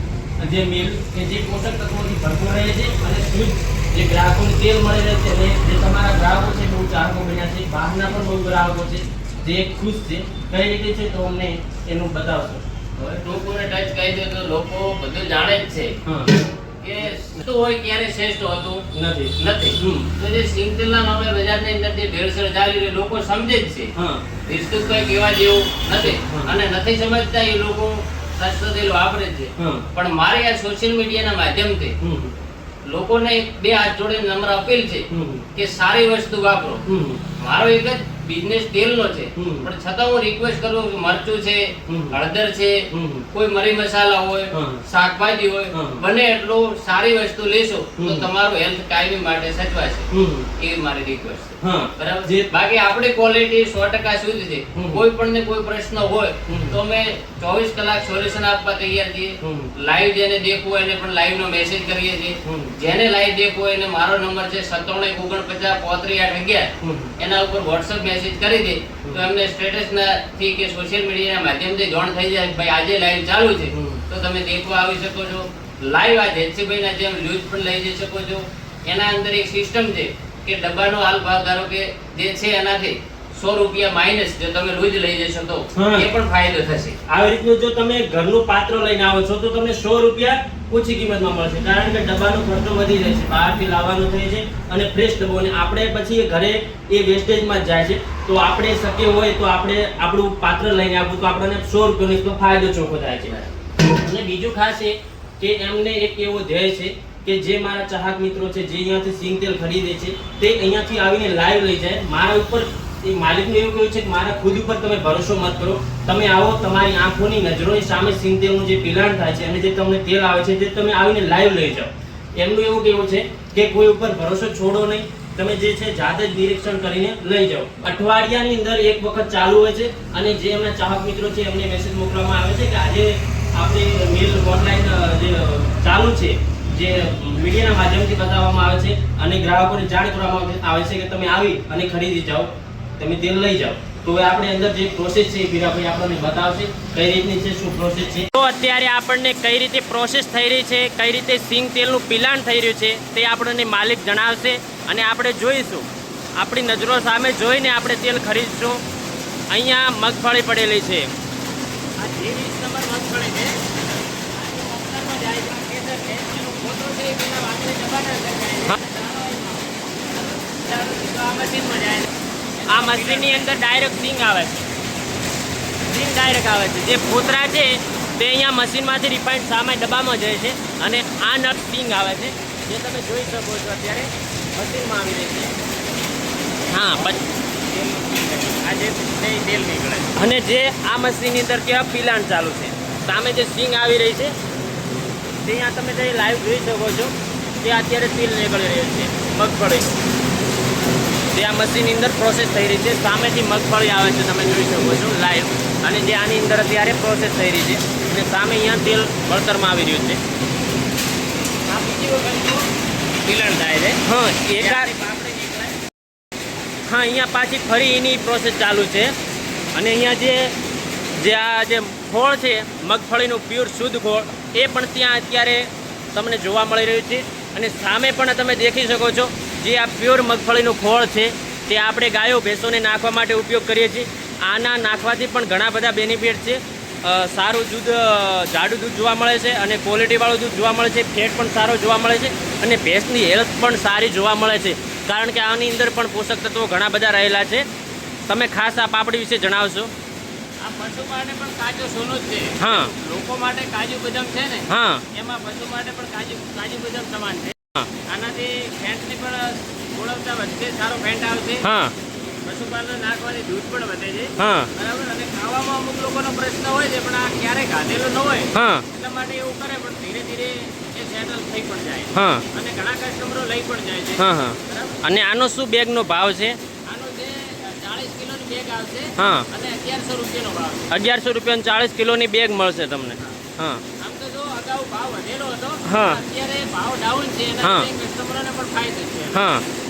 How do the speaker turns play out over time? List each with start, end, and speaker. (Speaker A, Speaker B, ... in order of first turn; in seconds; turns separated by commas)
Speaker A: 0.4-12.7, Speaker B: 13.0-16.0, Speaker A: 16.0-16.3, Speaker B: 16.8-18.8, Speaker A: 18.9-20.1, Speaker B: 19.4-23.9, Speaker A: 23.9-24.2, Speaker B: 24.4-31.9, Speaker A: 25.9-26.6, Speaker A: 29.6-29.9, Speaker A: 32.0-32.3, Speaker B: 32.9-36.8, Speaker A: 35.1-35.5, Speaker A: 36.9-37.2, Speaker B: 37.4-87.0, Speaker A: 39.4-39.7, Speaker A: 41.9-42.2, Speaker A: 42.9-43.2, Speaker A: 44.5-44.8, Speaker A: 45.7-46.0, Speaker A: 48.0-48.3, Speaker A: 50.1-50.5, Speaker A: 51.6-52.5, Speaker A: 54.7-55.0, Speaker A: 56.5-56.8, Speaker A: 59.4-59.7, Speaker A: 62.4-62.7, Speaker A: 66.8-67.1, Speaker A: 73.7-74.0, Speaker A: 85.7-86.1, Speaker A: 87.1-103.4, Speaker A: 103.9-158.8, Speaker A: 159.5-161.1, Speaker B: 162.0-163.7, Speaker B: 164.3-173.5, Speaker A: 172.7-174.7, Speaker A: 175.9-185.5, Speaker A: 186.7-187.2, Speaker B: 186.9-190.1, Speaker A: 190.1-194.3, Speaker A: 195.4-200.0, Speaker A: 201.3-210.2, Speaker B: 211.7-212.7, Speaker B: 213.2-214.0, Speaker A: 214.0-214.9, Speaker B: 214.5-215.8, Speaker A: 216.9-219.1, Speaker A: 219.7-220.5, Speaker A: 221.1-247.7, Speaker A: 248.3-249.9, Speaker B: 250.6-257.5, Speaker A: 252.6-252.9, Speaker A: 254.7-255.0, Speaker B: 258.1-261.7, Speaker A: 261.6-261.9, Speaker B: 262.4-275.0, Speaker A: 264.4-264.7, Speaker A: 268.5-268.9, Speaker A: 272.1-272.4, Speaker A: 274.2-276.6, Speaker B: 276.9-280.9, Speaker A: 279.2-279.5, Speaker A: 280.9-283.8, Speaker B: 284.0-289.4, Speaker A: 285.8-286.2, Speaker A: 287.6-287.9, Speaker A: 289.3-289.6